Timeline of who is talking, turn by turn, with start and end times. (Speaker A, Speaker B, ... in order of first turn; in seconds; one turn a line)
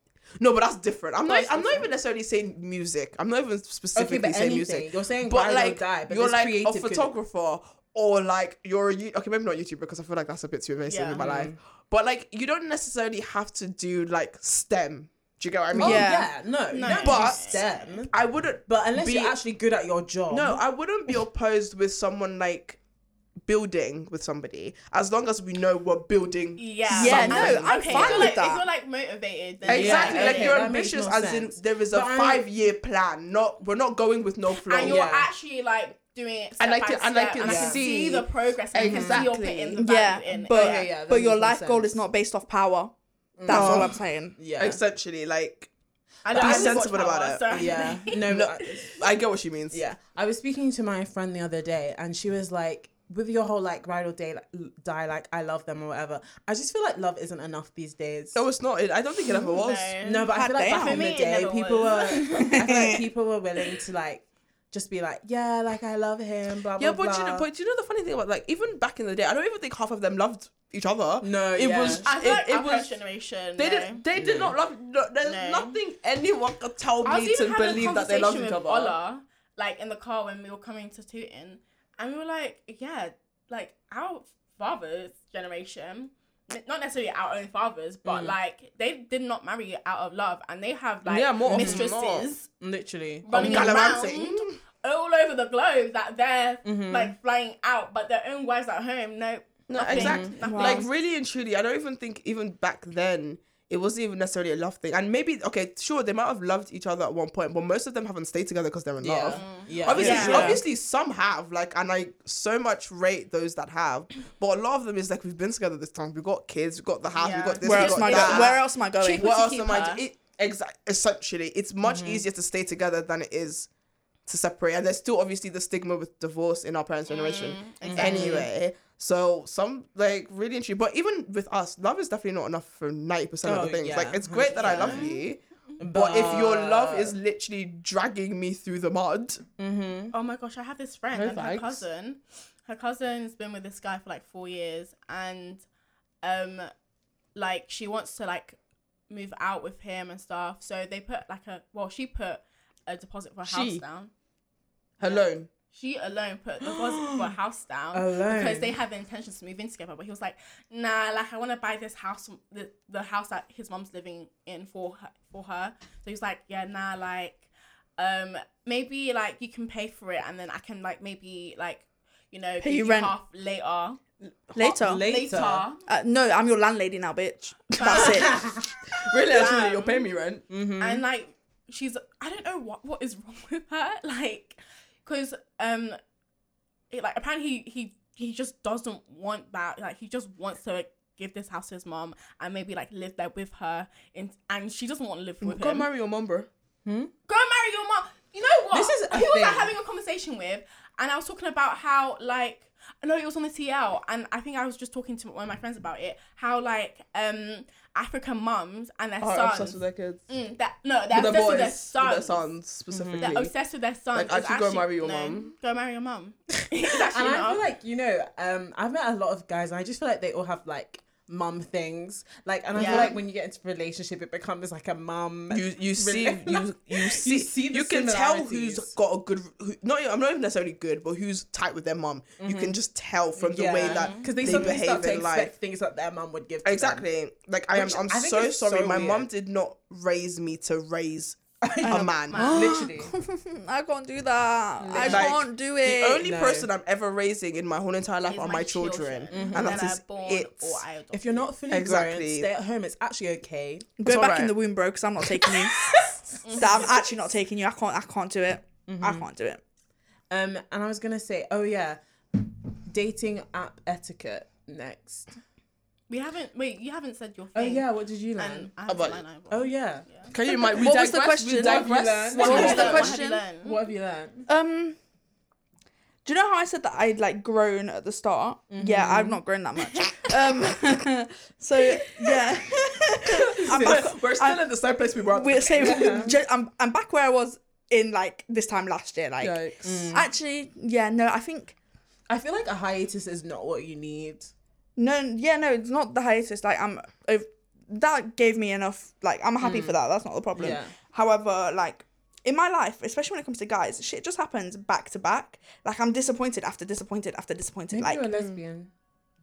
Speaker A: 0.4-16.1
Speaker B: 1.3-1.8
Speaker C: 3.9-7.1
Speaker D: 10.9-11.2
Speaker C: 11.2-11.5
Speaker C: 15.7-20.6
Speaker B: 15.8-16.3
Speaker D: 16.7-17.6
Speaker A: 16.8-19.4
Speaker A: 20.3-22.8
Speaker A: 23.4-28.3
Speaker D: 26.6-30.7
Speaker B: 26.9-28.6
Speaker A: 29.6-35.0
Speaker C: 29.7-32.5
Speaker D: 34.5-40.9
Speaker C: 34.8-35.3
Speaker A: 36.6-39.8
Speaker C: 37.4-37.8
Speaker C: 38.8-39.3
Speaker B: 39.8-42.9
Speaker C: 40.4-42.0
Speaker C: 43.4-44.8
Speaker B: 43.4-44.4
Speaker A: 43.5-44.0
Speaker A: 44.6-45.7
Speaker D: 46.2-48.1
Speaker A: 46.3-49.8
Speaker C: 46.3-46.9
Speaker C: 47.5-49.0
Speaker C: 49.7-58.4
Speaker A: 58.3-60.0
Speaker D: 59.2-62.6
Speaker C: 60.0-67.5
Speaker B: 60.3-61.1
Speaker B: 62.3-63.0
Speaker A: 66.8-73.0
Speaker C: 71.2-72.2
Speaker D: 71.9-74.0
Speaker A: 73.6-79.0
Speaker C: 74.1-74.5
Speaker D: 75.2-75.8
Speaker D: 77.0-92.5
Speaker C: 88.0-88.3
Speaker A: 91.0-92.3
Speaker C: 91.4-91.9
Speaker C: 92.6-93.8
Speaker D: 93.2-100.9
Speaker A: 93.3-94.6
Speaker C: 96.6-97.1
Speaker A: 99.7-123.7
Speaker C: 99.9-100.3
Speaker B: 100.4-100.9
Speaker C: 109.0-110.6
Speaker D: 109.3-110.5
Speaker B: 109.9-110.6
Speaker D: 117.1-120.0
Speaker B: 117.6-119.3
Speaker C: 121.8-122.2
Speaker A: 124.2-135.4
Speaker D: 127.1-128.5
Speaker C: 127.8-128.5
Speaker C: 133.4-135.1
Speaker D: 134.5-135.2
Speaker C: 135.8-137.2
Speaker A: 135.9-139.4
Speaker C: 139.6-140.1
Speaker D: 140.1-145.6
Speaker A: 141.1-141.8
Speaker D: 146.2-146.7
Speaker D: 147.3-148.6
Speaker D: 149.1-154.1
Speaker A: 153.4-153.8
Speaker A: 155.0-155.5
Speaker D: 155.0-167.4
Speaker C: 156.7-157.3
Speaker C: 157.9-158.8
Speaker D: 168.0-174.0
Speaker B: 172.6-173.1
Speaker B: 174.5-175.2
Speaker C: 174.6-175.7
Speaker D: 174.9-175.8
Speaker B: 175.8-178.4
Speaker D: 177.8-178.5
Speaker C: 178.0-178.6
Speaker A: 178.9-180.4
Speaker D: 179.2-180.1
Speaker C: 180.5-181.0
Speaker D: 180.8-186.0
Speaker D: 186.9-195.9
Speaker A: 195.4-196.5
Speaker C: 196.8-197.1
Speaker D: 197.3-212.5
Speaker C: 198.7-199.7
Speaker A: 209.2-210.3
Speaker A: 211.1-213.5
Speaker C: 212.9-213.3
Speaker D: 213.2-217.6
Speaker A: 214.1-215.5
Speaker C: 217.1-228.9
Speaker A: 222.7-223.2
Speaker D: 222.7-223.2
Speaker A: 225.5-235.5
Speaker C: 232.4-232.8
Speaker C: 233.4-237.1
Speaker D: 233.7-234.8
Speaker A: 236.6-242.6
Speaker C: 237.7-239.3
Speaker C: 241.6-243.1
Speaker D: 242.3-242.6
Speaker B: 242.3-246.2
Speaker C: 244.8-245.3
Speaker A: 245.0-250.8
Speaker C: 246.2-246.7
Speaker D: 248.3-251.5
Speaker C: 249.3-249.9
Speaker C: 251.1-254.0
Speaker A: 251.7-252.5
Speaker B: 254.0-256.0
Speaker A: 254.0-254.5
Speaker C: 255.8-256.2
Speaker D: 256.4-257.0
Speaker B: 256.5-259.6
Speaker C: 258.9-259.2
Speaker C: 260.3-265.3
Speaker D: 266.1-270.3
Speaker C: 267.5-268.7
Speaker A: 268.9-269.2
Speaker C: 269.5-270.1
Speaker A: 270.3-273.1
Speaker B: 270.7-273.4
Speaker C: 271.5-274.5
Speaker D: 272.4-273.8
Speaker B: 274.5-275.0
Speaker B: 276.2-284.6
Speaker C: 278.7-279.4
Speaker C: 283.5-284.1
Speaker A: 283.7-286.2
Speaker B: 285.3-291.7
Speaker C: 285.8-286.4
Speaker A: 289.4-289.9
Speaker C: 289.8-290.3
Speaker C: 292.3-294.5
Speaker B: 295.0-308.3
Speaker C: 299.6-300.0
Speaker C: 300.5-300.9
Speaker C: 307.9-308.9